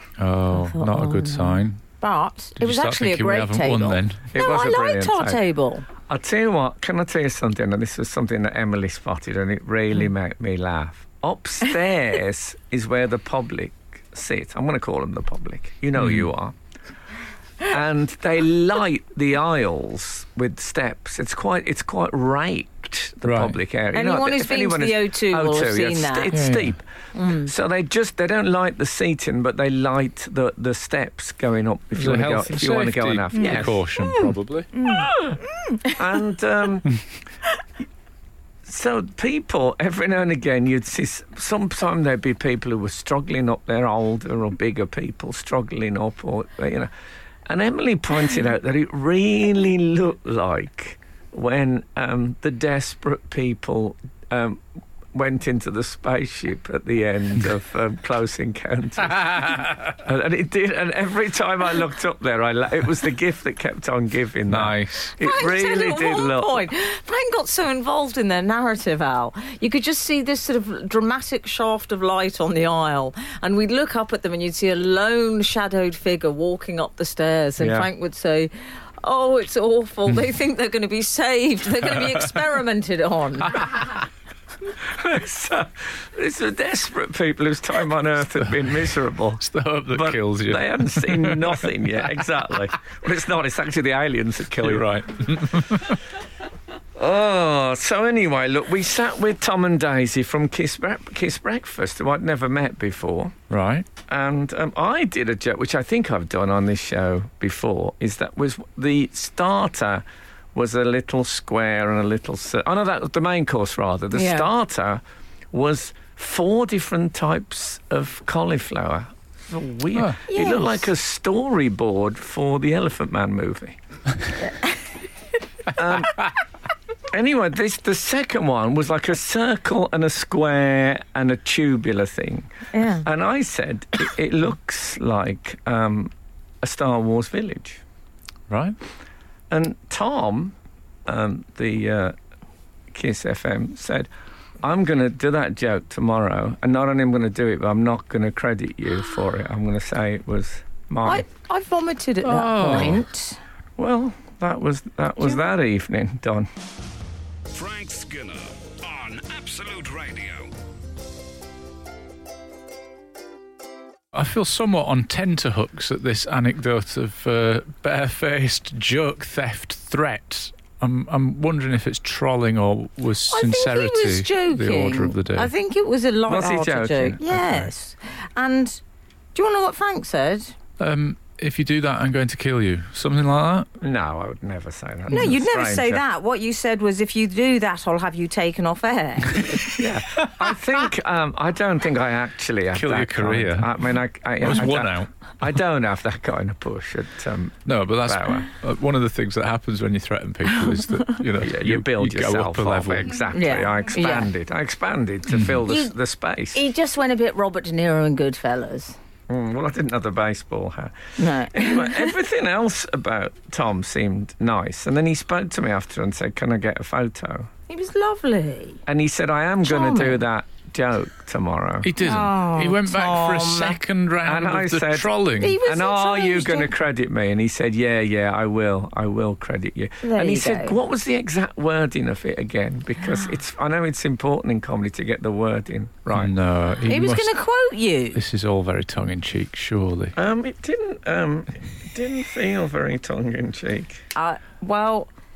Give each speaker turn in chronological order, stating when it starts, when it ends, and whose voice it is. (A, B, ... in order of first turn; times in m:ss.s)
0:00.2-0:01.8 A
0:00.5-0:05.9 B
0:02.6-0:04.3 A
0:04.3-0:05.4 C
0:06.1-0:16.5 C
0:16.0-0:16.3 A
0:17.6-0:33.8 C
0:23.2-0:23.6 A
0:23.9-0:26.4 B
0:26.3-0:26.7 A
0:27.1-0:27.5 B
0:31.9-0:34.7 A
0:33.3-0:35.9 B
0:35.9-0:37.0 C
0:38.6-0:46.9 C
0:47.4-0:54.6 C
0:55.1-1:06.7 C
0:59.1-0:59.8 A
1:04.5-1:05.1 A
1:05.2-1:23.8 B
1:17.6-1:17.9 C
1:24.8-1:34.9 C
1:29.4-1:31.7 A
1:34.6-1:36.0 A
1:37.0-1:43.4 C
1:43.5-1:43.9 A
1:44.1-1:50.0 C
1:50.5-1:55.0 C
1:54.1-1:54.5 B
1:55.5-2:03.8 C
1:59.9-2:00.2 A
2:00.3-2:00.8 B
2:05.7-2:06.2 C
2:07.1-2:17.8 C
2:12.7-2:13.0 B
2:18.5-2:18.8 A
2:19.5-2:20.5 C
2:21.0-2:22.2 C
2:22.9-2:24.1 C
2:24.6-2:31.2 C
2:31.0-2:33.4 B
2:32.2-2:33.0 A
2:33.8-2:36.5 C
2:37.5-2:40.5 D
2:44.1-2:55.5 A
2:53.3-2:58.8 B
2:56.3-2:57.7 C
2:59.3-3:00.5 B
3:00.8-3:03.7 A
3:03.8-3:06.0 C
3:05.1-3:09.6 B
3:09.7-3:18.5 C
3:12.7-3:13.8 A
3:14.4-3:15.1 A
3:17.6-3:23.2 A
3:21.4-3:26.6 C
3:23.3-3:24.3 B
3:25.3-3:25.6 A
3:25.6-3:26.0 B
3:26.5-3:28.9 B
3:29.3-3:30.9 C
3:31.2-3:32.2 B
3:31.5-3:37.5 C
3:37.7-3:38.8 B
3:38.8-3:41.9 C
3:39.6-3:40.2 B
3:41.8-3:45.6 A
3:42.0-3:43.8 B
3:44.2-3:56.3 C
3:45.4-3:46.7 B
3:50.0-3:50.8 B
3:56.1-3:57.4 A
3:56.8-3:58.2 B
3:58.1-4:00.1 A
4:00.1-4:04.0 C
4:04.1-4:05.1 B